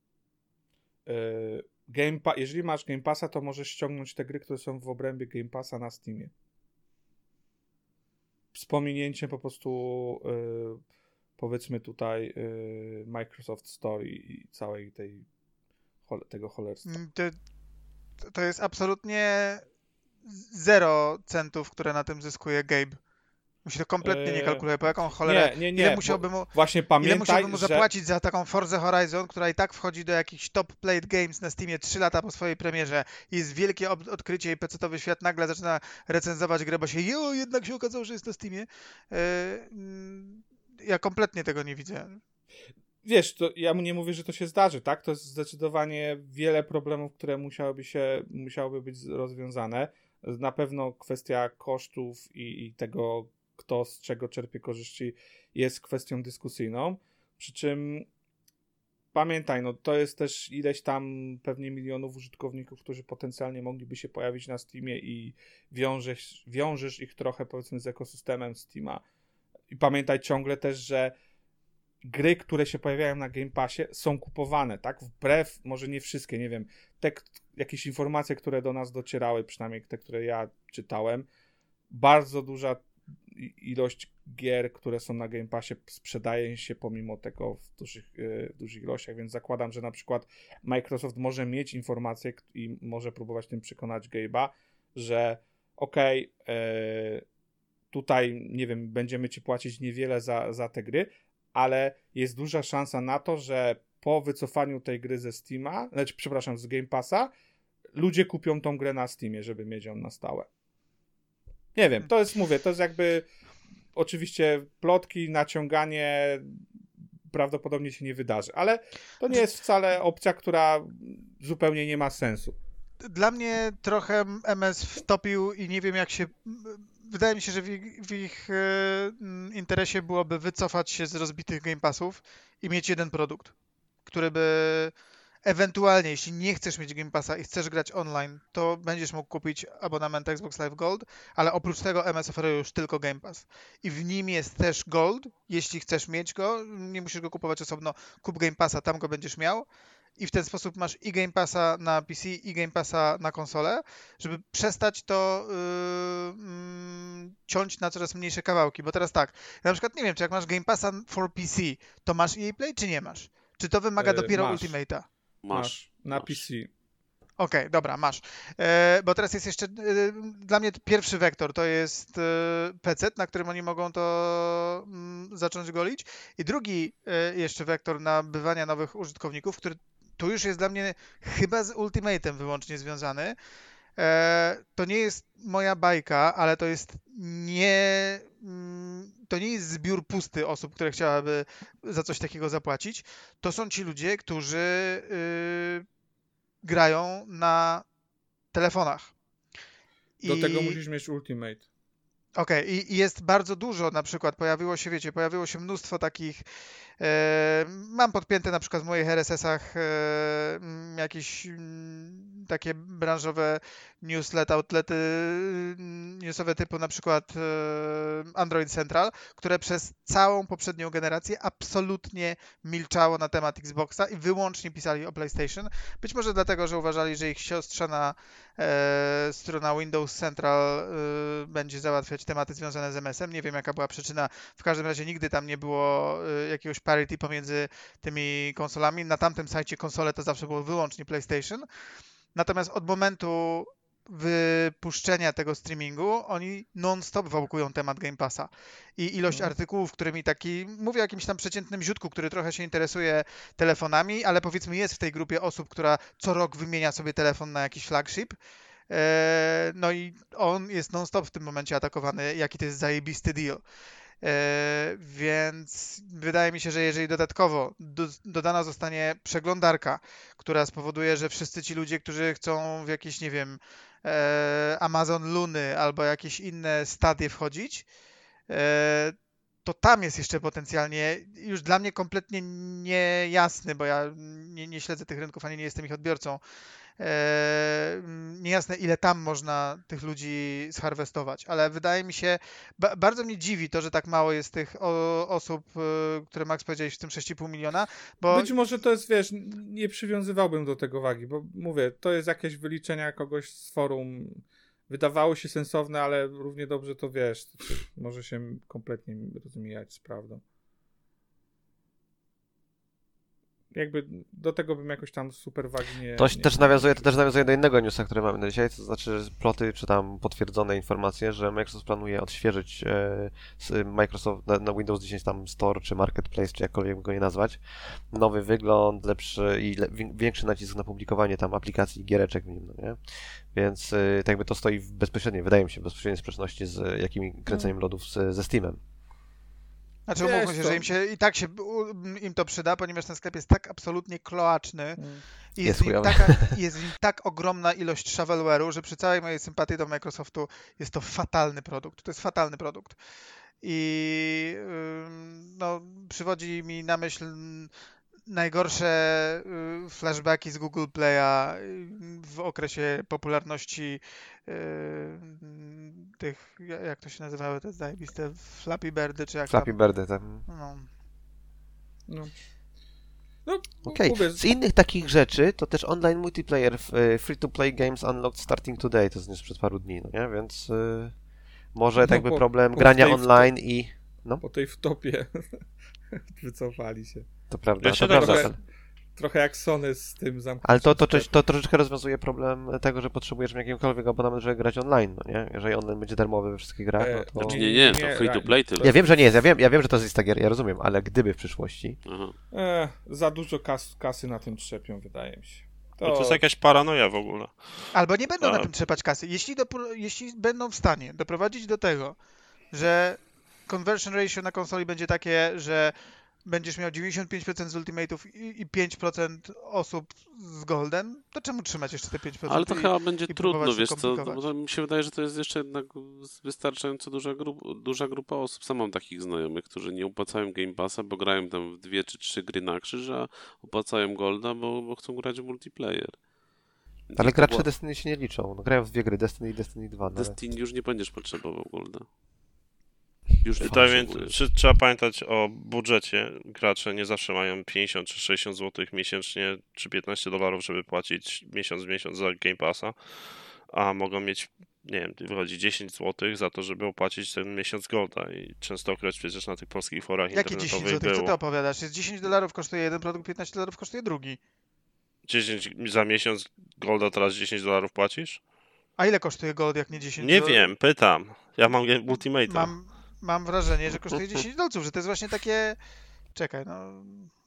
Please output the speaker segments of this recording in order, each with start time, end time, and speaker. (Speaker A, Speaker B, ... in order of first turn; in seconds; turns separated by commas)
Speaker A: 1.1-6.3, Speaker A: 8.5-10.8, Speaker A: 11.4-15.3, Speaker A: 16.1-16.9, Speaker B: 16.9-17.4, Speaker B: 18.3-19.6, Speaker B: 20.2-23.0, Speaker B: 23.6-42.2, Speaker A: 24.0-24.6, Speaker A: 25.2-27.9, Speaker A: 43.0-58.1, Speaker A: 59.1-69.0, Speaker A: 69.7-71.1, Speaker A: 72.0-81.3, Speaker A: 81.9-97.2, Speaker A: 97.9-107.3, Speaker A: 108.0-110.5, Speaker A: 111.8-113.3, Speaker A: 114.0-116.6, Speaker A: 117.3-122.6, Speaker B: 123.0-133.5, Speaker B: 134.1-134.9, Speaker B: 135.4-149.7, Speaker B: 150.2-165.1, Speaker A: 164.0-164.8, Speaker C: 165.4-166.4, Speaker A: 165.5-166.7, Speaker B: 167.4-183.4, Speaker B: 184.0-195.9, Speaker B: 196.6-197.9, Speaker B: 198.5-199.1, Speaker B: 200.2-200.8, Speaker A: 200.2-201.6, Speaker B: 202.4-206.4, Speaker B: 207.0-241.7, Speaker B: 242.3-258.4, Speaker B: 258.9-263.6, Speaker B: 264.2-277.9, Speaker B: 278.5-286.4, Speaker B: 287.0-298.5, Speaker A: 298.3-310.4, Speaker A: 313.7-317.1, Speaker D: 316.2-338.8, Speaker A: 337.5-337.8, Speaker B: 340.1-345.0, Speaker A: 340.2-340.8, Speaker A: 345.0-345.2, Speaker B: 345.6-353.0, Speaker D: 345.6-346.6, Speaker B: 353.6-357.7, Speaker B: 358.3-369.8, Speaker D: 369.5-370.5, Speaker B: 370.5-370.9, Speaker A: 372.1-372.3, Speaker A: 373.4-374.4, Speaker D: 373.8-381.1, Speaker D: 381.7-384.4, Speaker A: 382.0-383.5, Speaker A: 384.4-385.6, Speaker A: 386.1-387.3, Speaker D: 387.5-388.6, Speaker E: 387.8-388.5, Speaker A: 387.9-388.6, Speaker A: 389.2-391.3, Speaker D: 390.6-397.6, Speaker A: 397.0-399.1, Speaker C: 397.4-398.9, Speaker D: 398.8-402.0, Speaker C: 402.1-402.4, Speaker A: 402.5-406.4, Speaker E: 406.0-408.7, Speaker B: 407.9-412.2, Speaker B: 412.7-415.9, Speaker B: 416.5-424.4, Speaker C: 422.5-436.2, Speaker C: 437.1-437.7, Speaker D: 437.2-440.4, Speaker C: 440.1-442.1, Speaker C: 443.4-444.4, Speaker E: 443.6-453.0, Speaker D: 443.6-444.1, Speaker E: 453.7-461.4, Speaker B: 460.3-464.4, Speaker E: 465.3-468.4, Speaker B: 469.0-470.7, Speaker E: 470.2-472.7, Speaker B: 472.5-475.8, Speaker B: 476.3-477.3